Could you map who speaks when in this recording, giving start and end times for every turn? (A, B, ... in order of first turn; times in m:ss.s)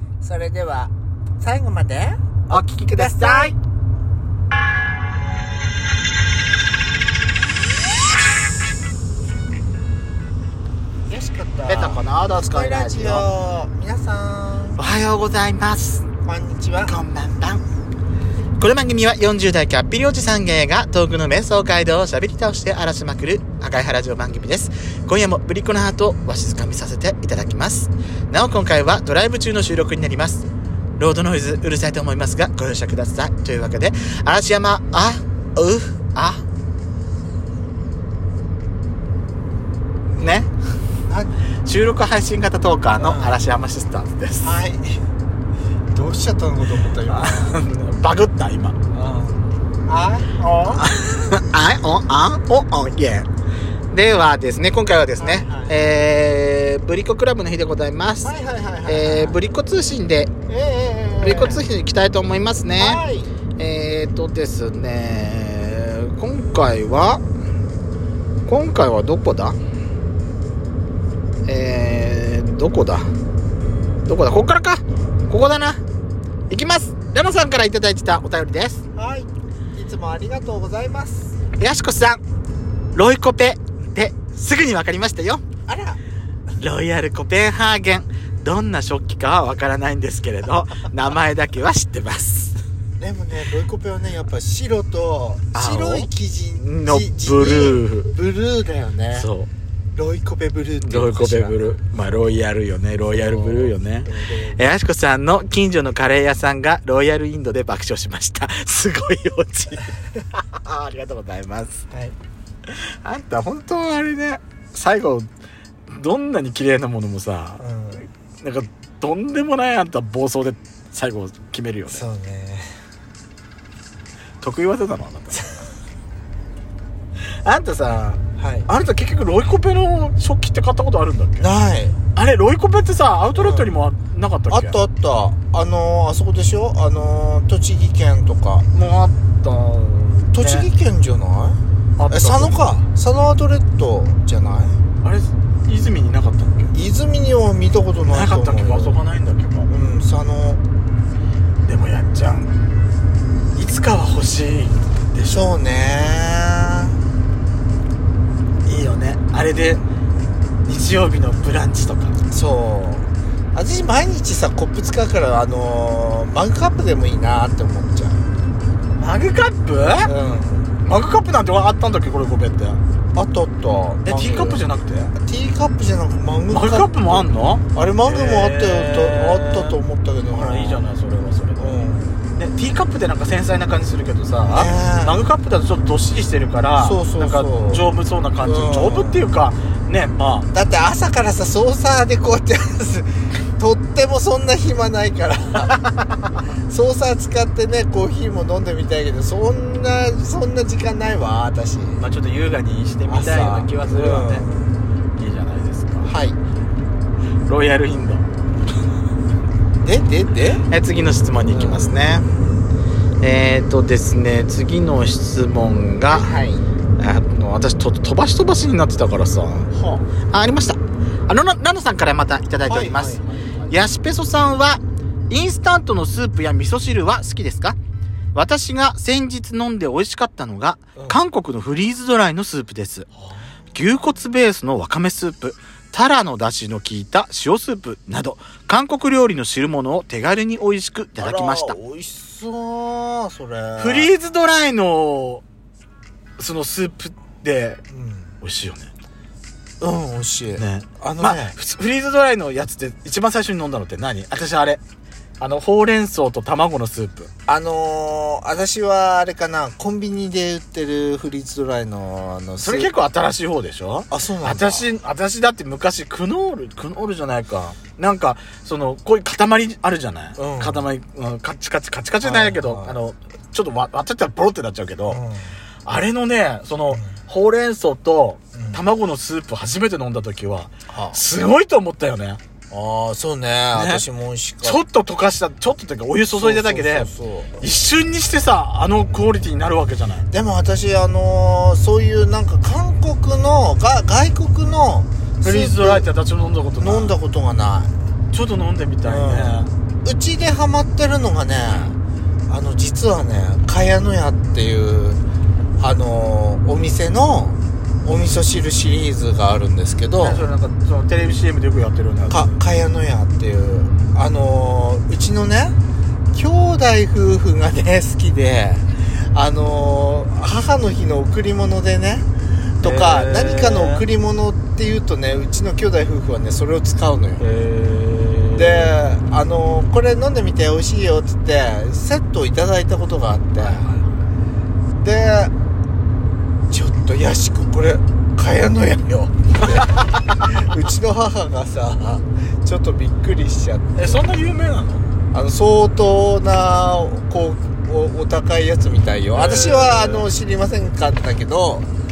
0:00.2-0:03.6 A
0:02.5-0:03.5 B
0:11.1-0:14.8 A
0:11.7-0:13.3 B
0:14.8-0:16.1 B
0:16.2-0:16.9 A
0:16.8-0:17.6 B
0:18.6-0:30.4 B
0:31.0-0:36.4 B
0:40.2-0:40.5 B
0:41.1-0:41.3 A
0:41.6-0:44.6 B
0:43.0-0:43.4 A
0:44.4-0:45.0 A
0:45.9-0:47.6 A
0:47.1-0:48.8 B
0:48.9-0:49.4 A
0:49.9-0:50.9 A
0:50.8-0:53.3 B
0:53.9-0:58.3 B
0:55.2-0:55.9 A
0:58.2-0:59.4 A
0:58.8-1:00.3 B
1:00.5-1:01.6 A
1:01.2-1:03.0 B
1:02.8-1:03.3 A
1:03.6-1:07.2 B
1:08.4-1:09.6 B
1:11.4-1:13.1 B
1:14.0-1:15.8 B
1:16.5-1:18.8 B
1:18.9-1:21.4 A
1:21.6-1:22.2 B
1:22.9-1:25.4 B
1:25.6-1:26.0 A
1:26.6-1:32.6 B
1:33.0-1:39.3 A
1:35.5-1:36.1 B
1:36.6-1:38.2 B
1:39.1-1:39.5 B
1:39.9-1:41.7 A
1:40.8-1:51.8 B
1:43.0-1:44.6 A
1:52.7-1:55.3 B
1:55.9-1:57.6 B
1:57.6-1:58.0 A
1:58.4-2:02.0 B
2:01.9-2:02.7 A
2:04.4-2:05.5 B
2:05.3-2:05.6 A
2:07.2-2:11.4 B
2:08.4-2:08.7 A
2:11.4-2:12.0 A
2:12.1-2:14.8 B
2:13.3-2:13.7 A
2:14.5-2:18.6 A
2:18.7-2:20.7 B
2:20.3-2:24.8 A
2:22.0-2:22.7 B
2:25.0-2:26.7 B
2:26.7-2:29.0 A
2:28.1-2:29.7 B
2:29.7-2:30.6 A
2:31.6-2:32.5 B
2:33.6-2:35.5 B
2:35.2-2:37.0 A
2:38.6-2:39.8 B
2:40.6-2:42.2 B
2:42.3-2:48.2 A
2:49.0-2:50.1 B
2:50.0-2:50.7 A
2:50.8-2:52.8 B
2:53.1-3:00.9 A
2:54.0-2:55.1 B
2:56.5-2:59.8 B
3:00.3-3:10.5 B
3:01.6-3:02.2 A
3:04.4-3:05.3 A
3:06.8-3:07.9 A
3:08.4-3:09.2 A
3:10.5-3:15.8 A
3:15.7-3:16.3 B
3:16.6-3:22.0 A
3:22.0-3:24.4 B
3:23.1-3:24.7 A
3:25.1-3:26.1 B
3:26.0-3:26.4 A
3:27.5-3:28.3 B
3:29.8-3:30.6 A
3:30.7-3:32.3 B
3:31.5-3:32.0 A
3:33.2-3:36.3 B
3:36.1-3:36.6 A
3:37.0-3:47.8 B
3:42.6-3:43.8 A
3:48.3-3:53.1 B
3:53.7-4:01.8 B
4:01.2-4:04.1 A
4:03.8-4:05.4 B
4:06.4-4:07.8 B
4:07.9-4:08.3 A
4:08.4-4:08.9 B
4:09.8-4:11.5 A
4:10.5-4:14.8 B
4:15.4-4:17.3 B
4:17.5-4:22.9 A
4:22.6-4:35.2 B
4:24.1-4:24.9 A
4:30.4-4:30.9 A
4:32.2-4:33.0 A
4:35.1-4:35.5 A
4:35.8-4:42.4 B
4:38.5-4:38.8 A
4:40.9-4:41.2 A
4:42.7-4:44.8 A
4:43.7-4:44.0 B
4:44.6-4:47.1 B
4:46.3-4:47.6 A
4:47.6-4:50.3 B
4:50.3-4:56.1 A
4:55.4-4:57.1 B
4:56.8-4:57.9 A
4:58.3-4:59.7 B
4:59.0-5:02.0 A
5:02.5-5:05.2 A
5:05.8-5:10.4 A
5:10.2-5:12.5 B
5:12.3-5:15.8 A
5:16.3-5:22.3 A
5:22.8-5:24.0 B
5:22.8-5:27.4 A
5:27.4-5:28.9 B
5:28.5-5:33.9 A
5:33.6-5:34.1 B
5:35.0-5:35.5 A
5:36.7-5:44.2 A
5:39.6-5:40.5 B
5:43.9-5:45.0 B
5:45.3-5:51.9 A
5:49.3-5:50.3 B